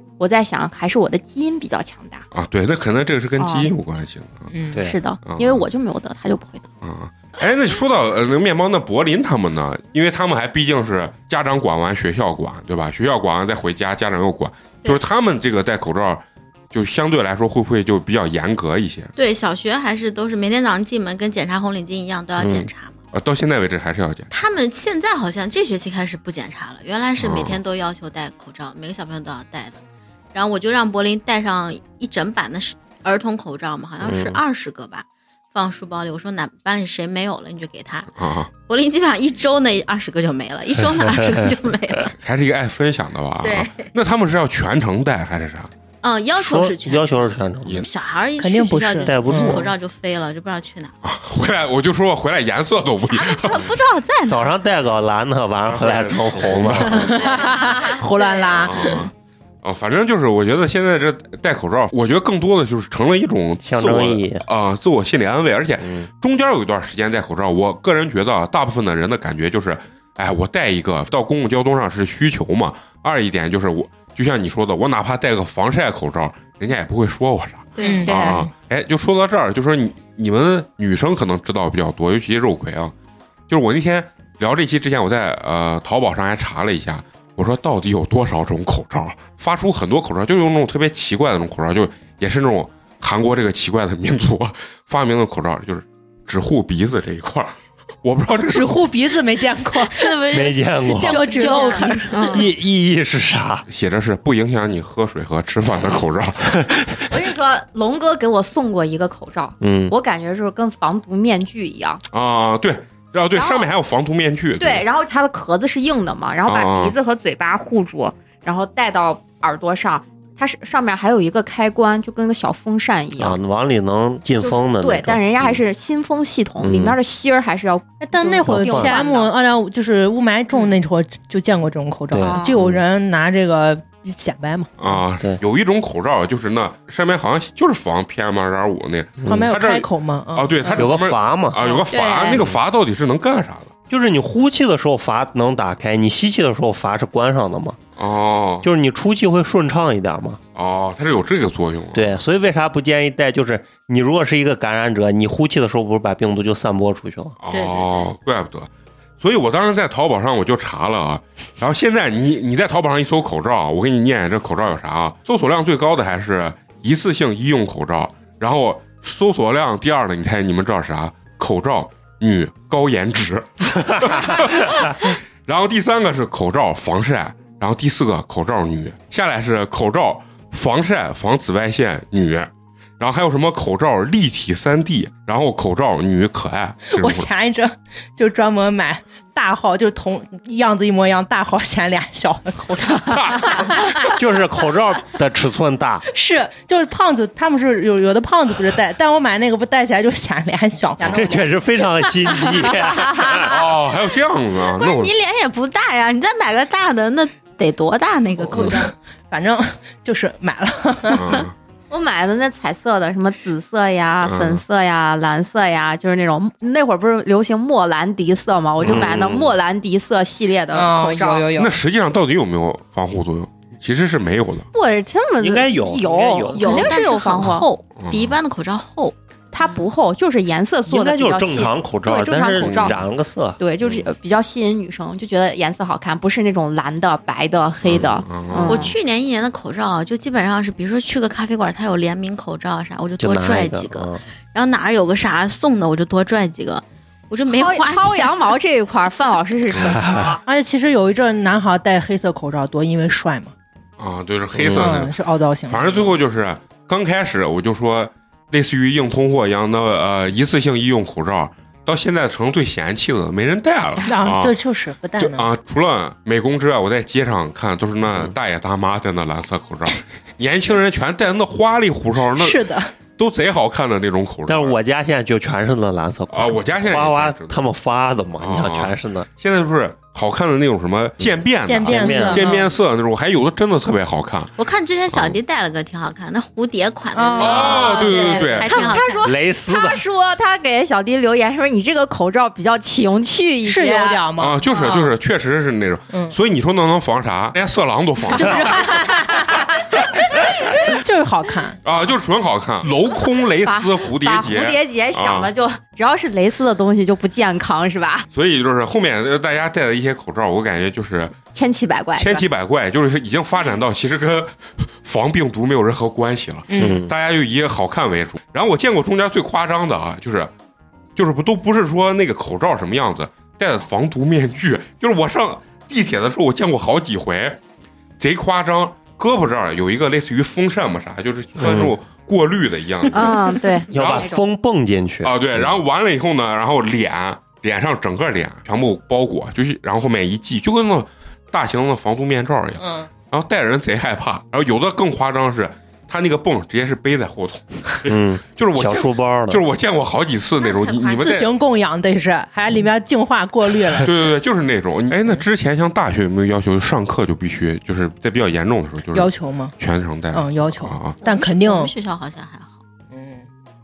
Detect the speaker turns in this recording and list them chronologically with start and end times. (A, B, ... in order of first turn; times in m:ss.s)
0:00.2-0:02.3 A
0:02.3-0:04.5 B
0:03.4-0:03.7 A
0:04.5-0:04.8 C
0:04.7-0:05.0 D
0:04.8-0:06.7 A
0:05.2-0:05.7 B
0:06.8-0:19.1 B
0:19.2-0:23.0 E
0:22.4-0:22.7 D
0:23.1-0:24.3 B
0:24.3-0:29.8 E
0:27.2-0:27.6 B
0:30.3-0:38.1 E
0:34.0-0:34.4 D
0:38.2-0:38.5 B
0:38.7-0:42.1 E
0:42.2-0:45.7 B
0:43.4-0:43.9 E
0:46.0-0:50.9 E
0:46.4-0:47.9 D
0:48.4-0:49.7 C
0:49.0-0:49.7 D
0:51.0-0:53.7 B
0:53.1-0:54.5 E
0:54.3-0:57.2 D
0:55.7-0:57.4 B
0:57.0-0:59.0 C
0:58.2-0:58.9 A
0:58.5-0:59.1 B
0:59.6-1:22.9 B
1:03.6-1:04.4 D
1:05.8-1:06.1 D
1:17.8-1:18.1 E
1:17.8-1:18.5 C
1:18.0-1:18.4 A
1:23.5-1:39.0 B
1:38.3-1:40.2 C
1:39.9-1:42.3 E
1:40.3-1:41.3 D
1:40.9-1:42.5 C
1:41.2-1:42.5 A
1:42.2-1:43.7 D
1:43.7-1:46.7 B
1:46.6-1:47.0 D
1:47.1-1:52.0 A
1:49.6-1:49.9 D
1:52.1-1:54.8 B
1:53.4-1:53.7 A
1:54.6-2:03.4 A
1:56.4-1:57.0 B
2:03.2-2:05.6 D
2:04.4-2:09.3 A
2:06.6-2:07.0 D
2:08.0-2:15.0 C
2:08.4-2:09.0 D
2:12.1-2:12.8 D
2:12.2-2:12.6 A
2:14.8-2:23.7 B
2:19.2-2:19.5 D
2:19.3-2:20.9 C
2:20.8-2:21.6 D
2:21.6-2:21.8 C
2:21.9-2:22.4 A
2:22.3-2:22.6 D
2:23.9-2:27.8 D
2:28.0-2:28.7 B
2:28.6-2:30.4 D
2:30.6-2:32.1 B
2:31.9-2:37.4 D
2:37.4-3:07.3 B
2:37.5-2:38.1 E
3:06.9-3:14.1 C
3:13.0-3:13.8 B
3:14.0-3:16.0 D
3:16.1-3:22.1 C
3:21.0-3:23.6 D
3:23.0-3:23.5 A
3:23.4-3:25.1 B
3:24.8-3:28.8 E
3:28.5-3:31.4 C
3:31.1-3:31.6 B
3:31.9-3:41.5 A
3:34.2-3:34.6 B
3:38.8-3:39.1 B
3:38.8-3:39.5 D
3:40.7-3:41.8 C
3:41.6-3:44.7 B
3:44.7-3:47.7 A
3:45.4-3:46.9 D
3:46.5-3:49.8 E
3:48.0-3:48.4 B
3:49.5-3:53.0 A
3:50.9-3:54.0 D
3:52.6-3:53.0 B
3:53.6-3:59.0 A
3:57.8-3:58.9 B
3:58.7-4:08.6 E
4:03.2-4:04.2 D
4:07.5-4:10.4 A
4:09.8-4:10.4 D
4:10.4-4:13.5 C
4:14.0-4:15.1 B
4:14.6-4:14.9 D
4:14.7-4:16.1 C
4:15.7-4:24.6 B
4:24.1-4:25.5 C
4:25.2-4:32.7 B
4:32.4-4:32.9 C
4:33.2-4:34.8 B
4:34.5-4:39.3 D
4:36.3-4:37.6 B
4:38.4-4:44.5 B
4:41.6-4:42.7 C
4:41.8-4:42.6 D
4:44.6-4:49.3 E
4:45.1-4:45.4 B
4:47.1-4:47.8 C
4:47.4-4:54.3 A
4:47.4-4:48.9 B
4:49.2-4:50.0 D
4:53.6-4:54.6 C
4:54.4-4:59.1 B
4:58.3-5:01.8 C
5:01.8-5:05.5 B
5:03.6-5:08.3 A
5:08.3-5:11.4 B
5:11.5-5:12.4 A
5:12.2-5:20.5 B
5:16.7-5:17.0 C
5:16.8-5:17.1 D
5:21.2-5:27.6 B
5:28.2-5:33.4 B
5:31.6-5:31.9 D
5:33.1-5:34.4 A
5:33.9-5:35.7 D
5:35.2-5:51.5 B
5:42.8-5:43.1 C
5:48.1-5:49.6 D
5:50.6-5:51.4 E
5:51.2-5:54.1 C
5:54.0-6:01.2 B
5:59.1-5:59.8 C
6:00.3-6:01.9 C
6:01.2-6:02.8 E
6:03.1-6:03.4 C